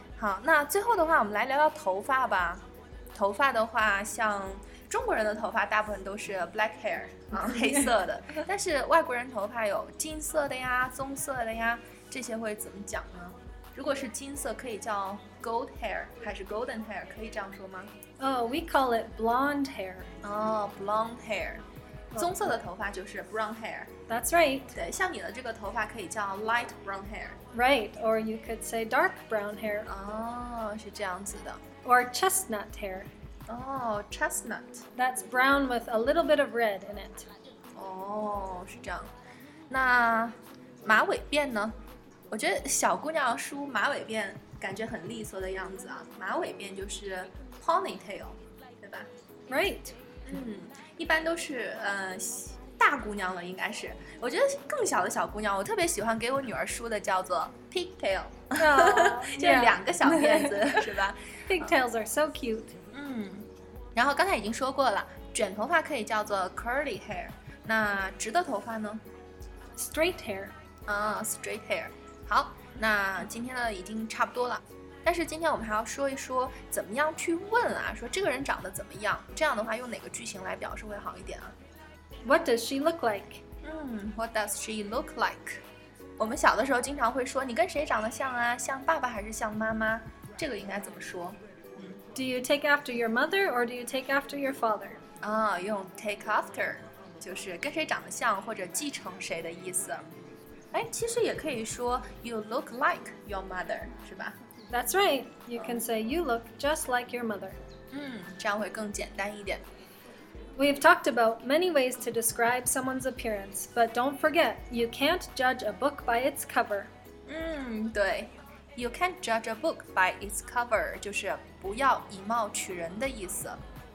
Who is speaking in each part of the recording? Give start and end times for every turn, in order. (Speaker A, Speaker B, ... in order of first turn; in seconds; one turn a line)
Speaker A: 0.2-17.9
Speaker B: 7.5-7.9
Speaker B: 18.2-20.1
Speaker A: 20.2-23.9
Speaker B: 22.1-22.5
Speaker B: 24.1-24.8
Speaker A: 24.8-27.4
Speaker B: 27.5-29.9
Speaker A: 29.9-31.6
Speaker B: 31.8-33.1
Speaker A: 33.5-34.8
Speaker B: 35.0-37.3
Speaker A: 37.8-39.1
Speaker A: 39.7-41.8
Speaker A: 42.3-49.1
Speaker B: 49.5-50.0
Speaker A: 50.3-61.7
Speaker B: 58.6-60.9
Speaker B: 61.5-62.7
Speaker A: 62.9-69.0
Speaker B: 69.8-70.5
Speaker A: 70.9-81.5
Speaker B: 82.3-83.4
Speaker A: 83.6-85.6
Speaker A: 86.2-92.0
Speaker B: 92.1-95.0
Speaker A: 95.2-100.0
Speaker A: 100.7-104.4
Speaker B: 104.7-107.6
Speaker A: 105.6-105.8
Speaker A: 107.9-109.6
Speaker B: 110.6-116.9
Speaker A: 117.3-123.6